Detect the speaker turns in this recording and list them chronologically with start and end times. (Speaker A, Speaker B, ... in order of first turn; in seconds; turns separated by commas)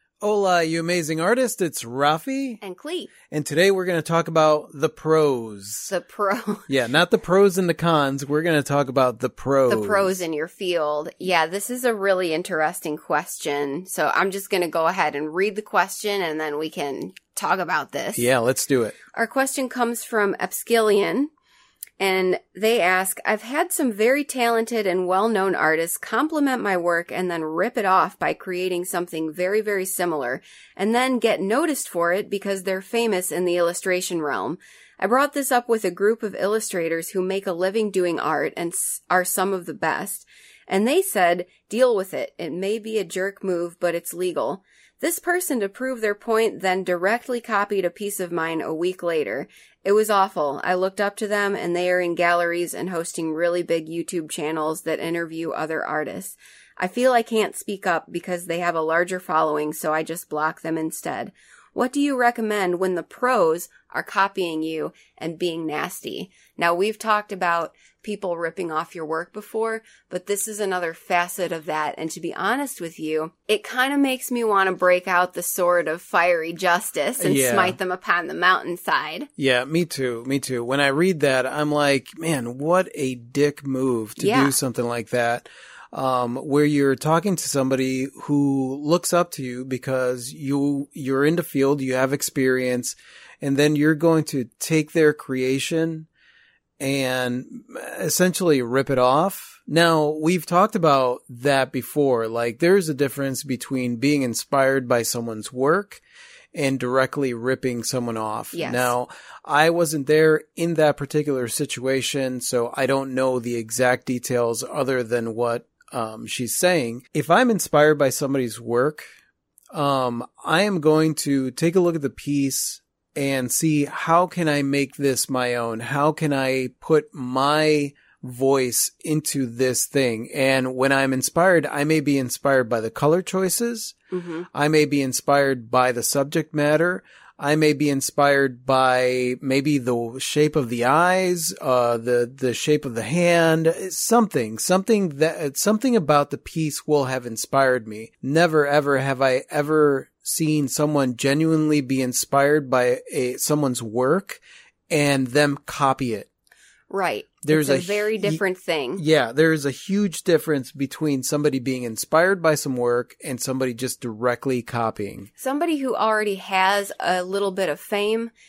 Speaker A: 0.2-2.6, Speaker B: 2.6-3.1, Speaker A: 3.3-5.9, Speaker B: 5.9-6.7, Speaker A: 6.7-10.2, Speaker B: 9.7-18.3, Speaker A: 18.1-19.0, Speaker B: 19.1-21.3, Speaker B: 22.0-79.3, Speaker A: 77.2-77.8, Speaker A: 79.4-96.1, Speaker B: 84.2-84.6, Speaker A: 96.8-106.0, Speaker A: 106.5-119.0, Speaker B: 108.5-108.9, Speaker A: 119.7-133.9, Speaker B: 134.1-134.5, Speaker A: 134.5-156.3, Speaker B: 156.9-159.0, Speaker A: 157.4-158.4, Speaker A: 159.0-165.3, Speaker B: 165.4-168.3